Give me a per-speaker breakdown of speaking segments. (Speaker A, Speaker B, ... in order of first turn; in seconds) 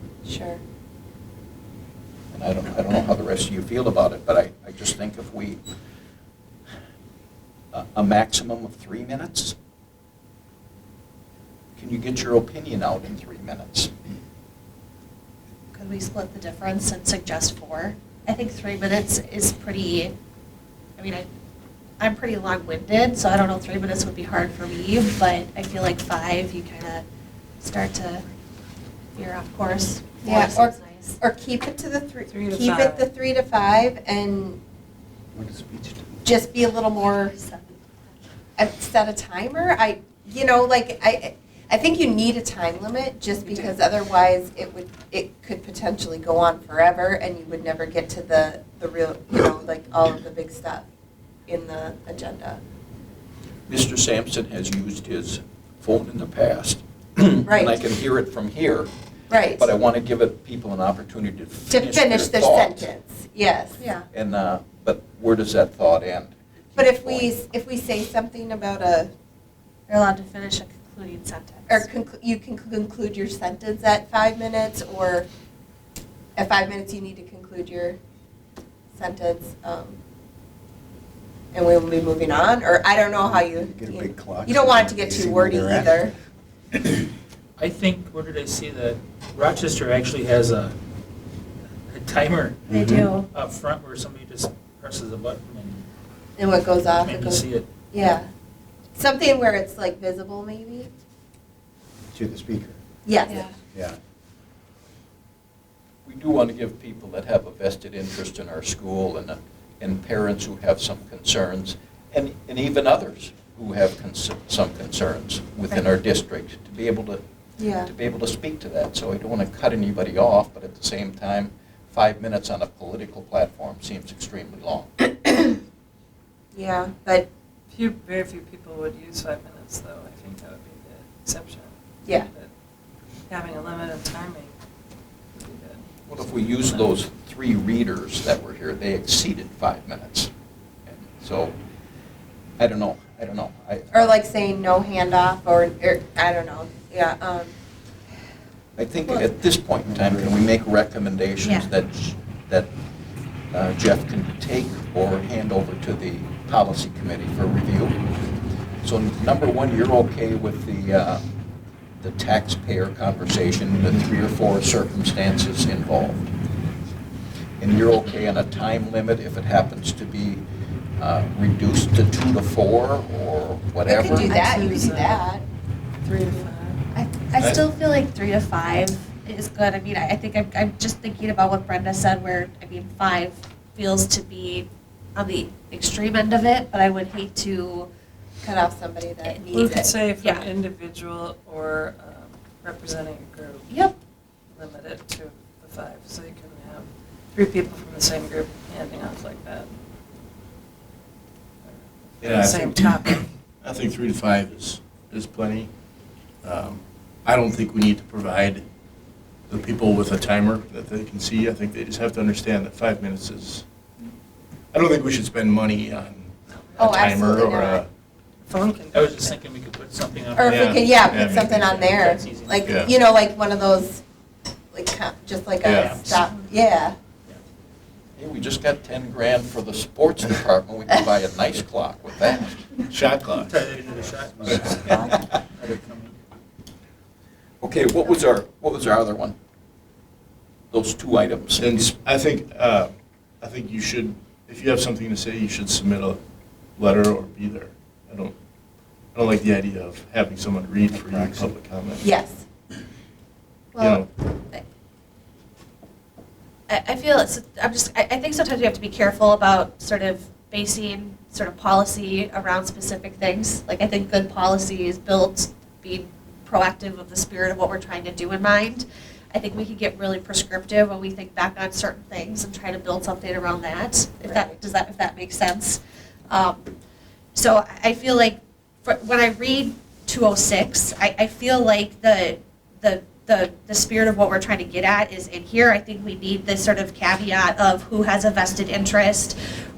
Speaker A: 0.2-0.6, 30.2-34.6, 36.2-37.4, 38.6-50.9, 51.5-52.6, 57.5-57.8, 59.3-59.7, 61.7-63.8, 66.8-69.1, 71.7-75.3, 76.3-78.0, 79.0-80.0, 81.5-86.1, 96.4-98.3, 99.0-100.9, 103.0-103.5, 117.6-117.9, 125.2-125.6, 126.5-127.3, 143.9-147.5, 173.8-175.4, 188.4-189.9, 216.8-217.8, 220.3-224.0, 224.7-226.9, 252.0-252.4, 274.2-274.5
Speaker B: 2.3-5.6, 7.7-9.6, 11.8-13.9, 53.7-58.9, 59.6-62.9, 64.1-67.3, 106.0-117.2, 117.8-124.9, 136.1-140.3, 140.9-141.6, 142.6-144.2, 148.8-152.7, 153.5-158.0, 158.8-161.2, 162.0-166.3, 167.6-170.4, 171.0-174.5, 228.2-232.7, 234.9-235.2, 237.6-239.3, 240.7-241.9
Speaker C: 15.7-20.1, 21.0-21.3, 22.0-27.0, 27.6-28.2, 29.1-31.2, 37.3-37.6, 63.8-64.0, 69.9-71.9, 92.7-93.2, 103.2-103.5, 151.4-151.7, 176.9-187.9, 190.2-190.5, 253.7-254.6, 256.7-276.7, 277.3-289.4
Speaker D: 32.3-33.1, 127.7-132.5, 133.3-134.5, 135.3-136.9, 174.1-175.3, 176.0-176.8, 189.5-193.7, 194.5-199.7, 201.7-203.2, 216.5-216.8, 218.4-219.4
Speaker E: 35.3-36.1, 84.0-85.7, 102.1-102.8
Speaker F: 87.6-90.7, 91.9-92.6, 93.3-95.8, 97.0-97.7, 218.9-222.8, 225.7-226.5, 233.3-236.2
Speaker G: 177.4-177.6, 202.2-205.7, 206.4-208.6, 209.5-213.6, 214.7-217.9, 220.4-221.5, 225.6-226.0, 232.9-233.5, 234.4-234.8, 241.6-246.2, 246.8-248.3, 249.1-252.0, 253.8-254.1